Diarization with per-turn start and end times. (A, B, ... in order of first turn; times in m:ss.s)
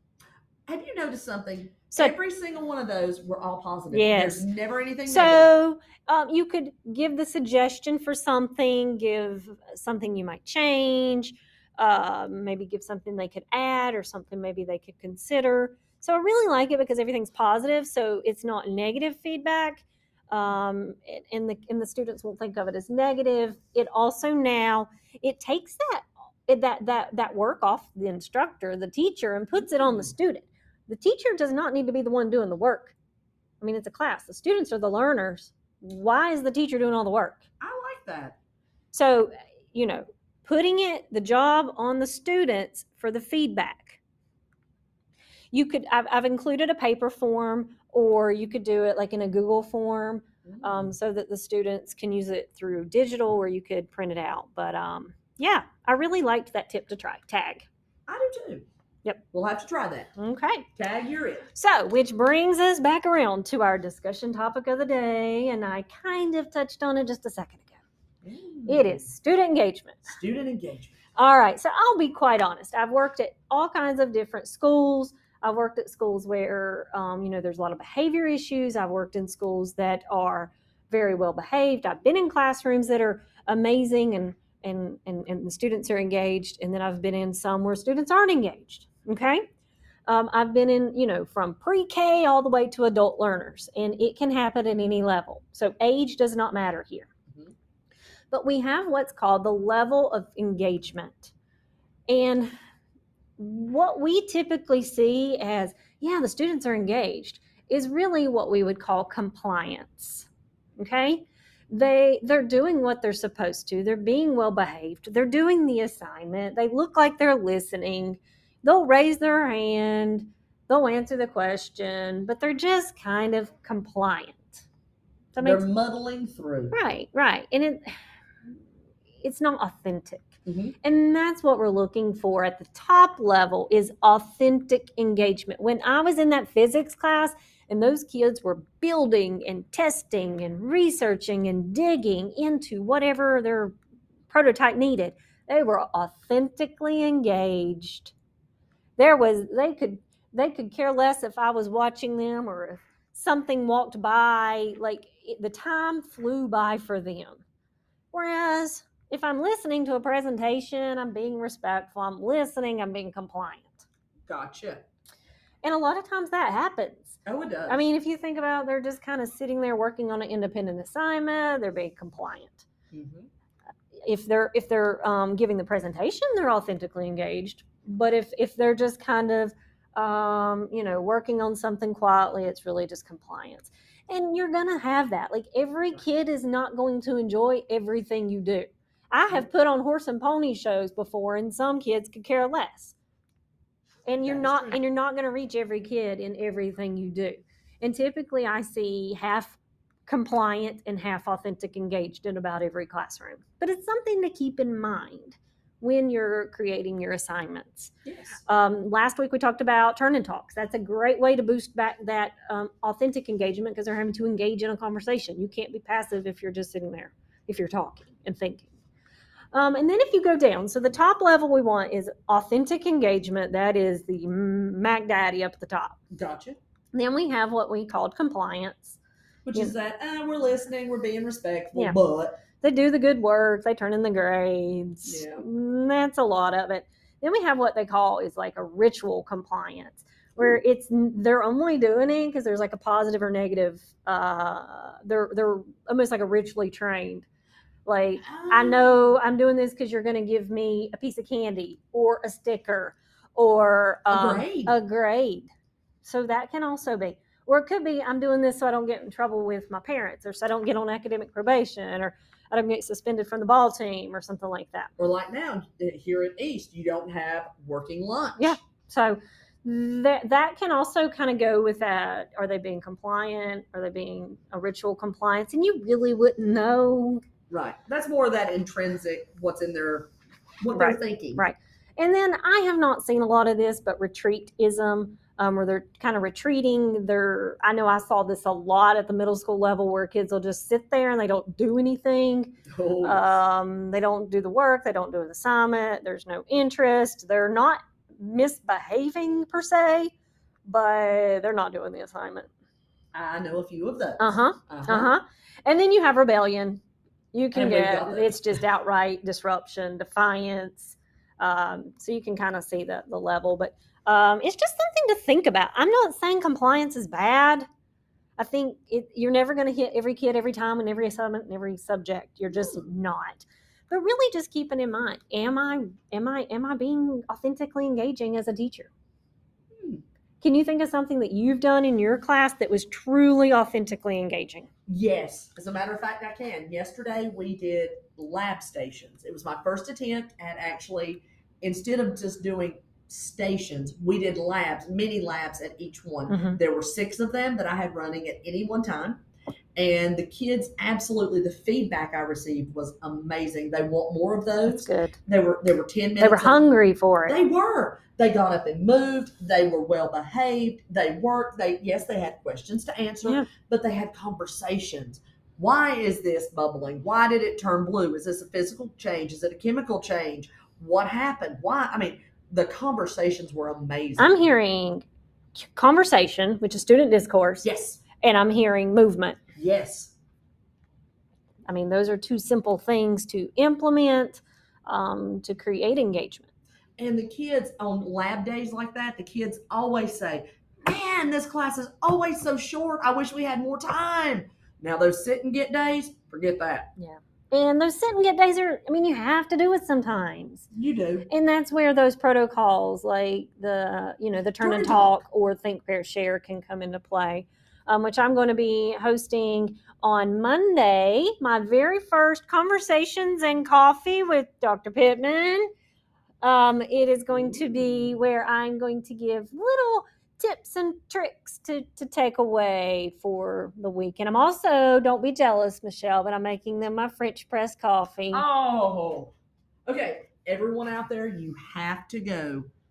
0:00.7-0:05.5 A
0:03.9-0:04.5 B
0:05.1-0:33.0 B
0:29.6-0:30.1 A
0:33.6-0:37.4 B
0:37.6-0:38.4 A
0:38.9-0:44.0 B
0:45.5-0:57.7 B
0:50.4-0:51.0 A
0:58.1-0:58.6 A
0:59.3-1:00.1 A
1:00.2-1:00.7 B
1:00.8-1:01.5 A
1:01.5-1:07.8 B
1:08.2-1:09.0 A
1:08.7-1:10.1 B
1:10.1-1:11.0 A
1:11.2-1:29.5 B
1:30.1-1:37.1 B
1:38.3-1:41.3 B
1:42.1-1:42.5 B
1:43.4-2:04.6 B
2:05.3-2:05.6 B
2:05.4-2:06.7 A
2:06.7-2:08.0 B
2:09.2-2:23.8 B
2:10.5-2:10.7 A
2:24.3-2:28.1 B
2:29.0-2:37.4 B
2:38.1-2:43.8 B
2:44.3-2:44.8 A
2:45.6-2:52.7 B
2:47.3-2:47.9 A
2:52.9-2:53.3 A
2:54.0-3:13.0 B
3:14.1-3:27.9 B
3:14.2-3:14.8 A
3:28.0-3:28.4 A
3:28.5-3:38.7 B
3:39.5-3:46.0 B
3:46.1-3:46.6 A
3:46.9-3:49.0 B
3:49.5-3:52.4 A
3:52.6-4:07.3 B
3:55.0-3:55.5 A
4:00.4-4:00.6 A
4:07.9-4:15.5 B
4:08.2-4:09.1 A
4:14.1-4:14.7 A
4:16.0-4:24.9 B
4:25.0-4:28.6 A
4:28.4-4:37.2 B
4:37.5-4:41.4 A
4:40.7-5:00.1 B
4:52.7-4:53.4 A
5:00.7-5:02.5 B
5:03.1-5:05.1 A
5:04.2-5:06.8 B
5:07.3-5:17.7 B
5:07.5-5:08.6 A
5:18.4-5:28.9 B
5:22.5-5:22.8 A
5:29.8-5:30.0 A
5:30.4-5:34.7 B
5:34.9-5:49.2 A
5:46.3-5:46.6 B
5:49.8-5:56.7 A
5:54.7-5:55.2 B
5:56.2-5:57.4 B
5:57.3-6:14.4 A
6:14.2-6:17.7 B
6:17.6-6:18.0 A
6:18.2-6:19.4 B
6:19.6-6:20.1 A
6:21.7-6:26.5 B
6:27.0-6:36.9 A
6:37.0-6:40.7 B
6:40.7-6:41.3 A
6:41.3-6:55.7 B
6:44.6-6:45.2 A
6:56.4-7:08.4 B
6:57.3-6:57.9 A
7:08.3-7:09.3 A
7:09.9-7:12.7 A